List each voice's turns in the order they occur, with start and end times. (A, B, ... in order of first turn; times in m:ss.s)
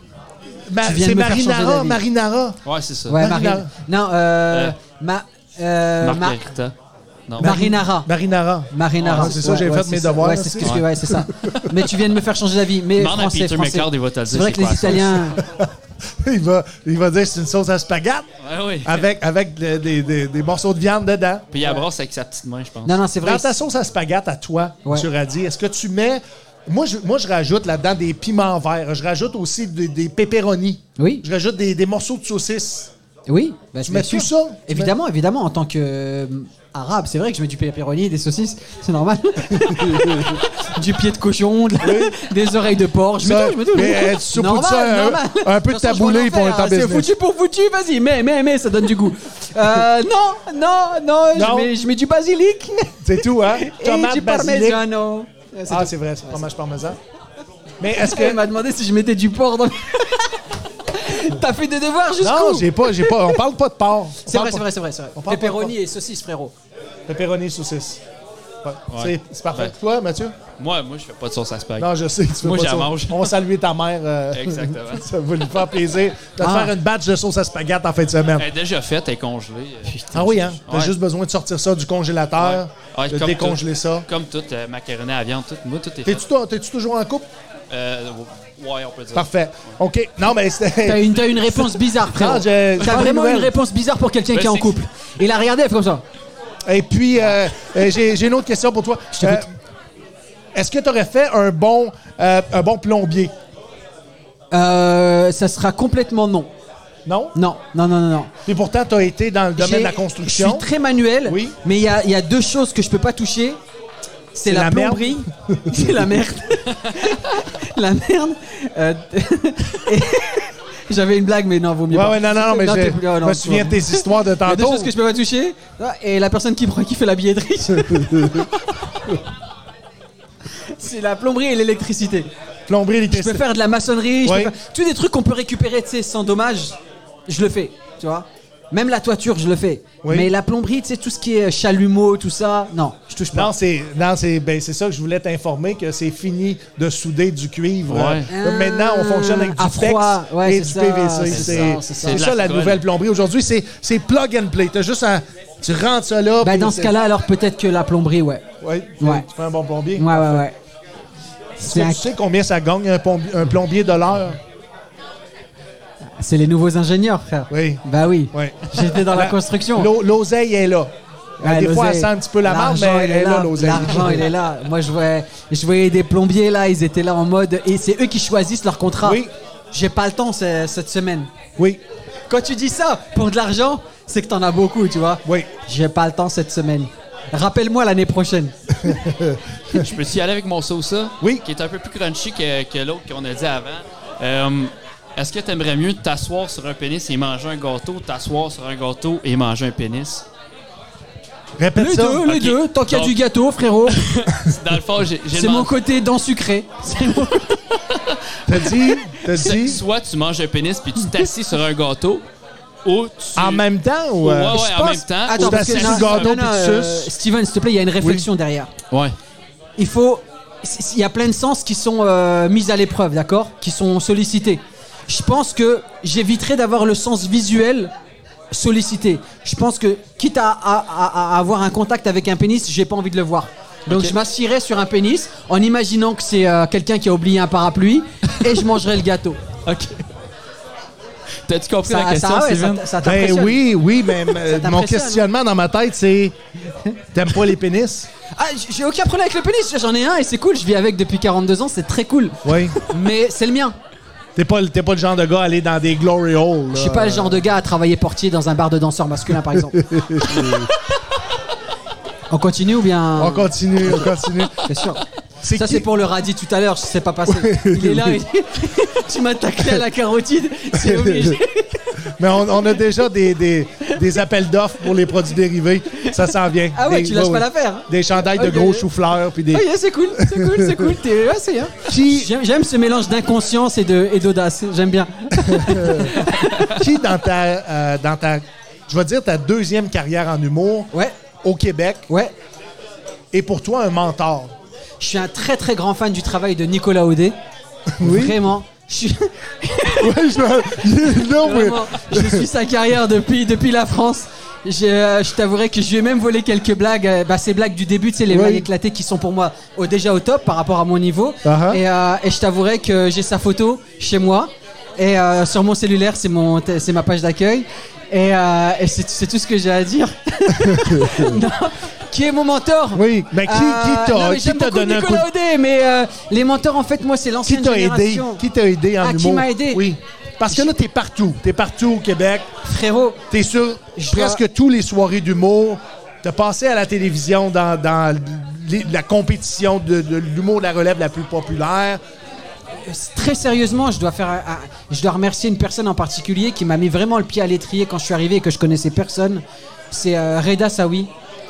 0:00.7-0:02.6 A
0:00.8-0:02.0 B
0:02.6-0:03.2 C
0:03.1-0:06.4 B
0:03.2-0:03.7 A
0:04.5-0:04.7 C
0:06.0-0:06.7 C
0:07.4-0:08.1 B
0:07.4-0:11.3 A
0:08.7-0:15.4 B
0:09.0-0:09.3 C
0:10.6-0:10.9 C
0:11.4-0:11.7 C
0:12.9-0:15.3 C
0:14.9-0:15.7 A
0:16.2-0:18.2 A
0:18.4-0:19.1 C
0:18.8-0:21.5 A
0:21.5-0:23.0 C
0:22.8-0:23.5 B
0:23.2-0:32.9 A
0:31.0-0:31.2 B
0:33.3-0:56.4 B
0:33.8-0:34.9 A
0:39.6-0:40.4 A
0:41.8-0:42.1 A
0:43.2-0:47.1 A
0:51.4-0:51.7 A
0:53.0-0:54.8 A
0:55.7-0:57.0 A
0:57.8-0:58.4 A
0:57.9-1:03.2 B
1:02.2-1:04.6 A
1:04.2-1:06.5 B
1:05.2-1:05.7 A
1:07.1-1:08.0 A
1:08.6-1:10.3 A
1:08.9-1:09.7 C
1:10.6-1:11.9 C
1:11.8-1:18.4 A
1:12.4-1:13.3 C
1:14.3-1:15.0 C
1:16.4-1:16.7 B
1:18.4-1:20.0 C
1:19.9-1:20.6 B
1:20.1-1:24.0 A
1:20.6-1:20.9 C
1:22.4-1:26.2 C
1:26.0-1:27.3 A
1:27.7-1:29.7 C
1:29.1-1:33.5 A
1:30.8-1:36.0 B
1:34.3-1:34.8 C
1:36.6-1:39.5 A
1:39.2-1:39.4 B
1:40.5-1:43.3 A
1:44.5-1:46.5 B
1:47.0-1:47.3 A
1:47.3-1:48.3 B
1:48.4-1:50.6 A
1:49.6-1:53.6 B
1:51.2-1:51.6 A
1:54.3-2:08.3 B
1:54.4-1:56.0 A
2:01.9-2:04.9 A
2:07.8-2:08.5 A
2:10.5-2:12.3 B
2:12.7-2:13.4 A
2:13.1-2:23.5 B
2:14.2-2:14.5 A
2:20.0-2:20.3 A
2:23.3-2:36.9 A
2:27.9-2:28.3 C
2:28.3-2:32.3 B
2:31.3-2:32.8 C
2:36.4-2:38.5 B
2:38.6-2:40.4 A
2:39.0-2:39.2 B
2:39.9-2:40.6 B
2:41.6-2:42.0 B
2:41.6-2:44.4 A
2:46.2-2:49.9 B
2:47.5-2:47.8 A
2:48.3-2:54.3 A
2:51.4-3:01.3 B
2:59.0-2:59.3 A
3:02.3-3:08.5 B
3:08.8-3:09.8 A
3:09.7-3:20.2 C
3:21.6-3:22.2 A
3:21.8-3:24.1 B
3:22.2-3:23.2 C
3:23.9-3:25.7 C
3:25.3-3:27.8 B
3:28.5-3:29.8 A
3:29.4-3:32.2 C
3:32.8-3:33.6 C
3:33.4-3:37.1 A
3:34.2-3:36.4 C
3:34.5-3:38.7 B
3:39.8-3:47.9 B
3:48.5-3:59.4 B
3:59.6-4:00.0 C
4:01.4-4:02.8 C
4:01.8-4:03.6 B
4:03.0-4:06.4 A
4:04.3-4:05.2 B
4:07.1-4:08.1 A
4:08.4-4:13.7 B
4:12.4-4:12.8 A
4:14.4-4:17.4 A
4:16.7-4:20.7 B
4:19.6-4:20.7 A
4:22.3-4:25.0 B
4:23.2-4:24.7 A
4:25.4-4:25.8 A
4:25.5-4:32.0 B
4:27.3-4:28.2 A
4:30.8-4:31.4 A
4:32.2-4:39.7 A
4:36.7-4:38.9 B
4:39.5-4:46.8 B
4:40.2-4:40.8 A
4:41.9-4:42.3 A
4:45.4-4:50.9 A
4:50.9-4:51.2 B
4:51.4-4:52.0 A
4:52.1-4:52.3 B
4:53.3-4:54.5 A
4:55.0-4:57.4 B
4:58.0-4:58.4 A
4:58.0-5:00.1 B
5:00.0-5:02.4 A
5:01.2-5:28.4 B
5:08.3-5:08.6 A
5:11.4-5:11.8 A
5:20.6-5:21.4 A
5:22.9-5:25.3 A
5:27.4-5:32.5 A
5:29.0-5:29.9 B
5:32.6-5:33.2 B
5:33.3-5:42.0 A
5:34.0-5:34.4 B
5:42.8-5:51.1 B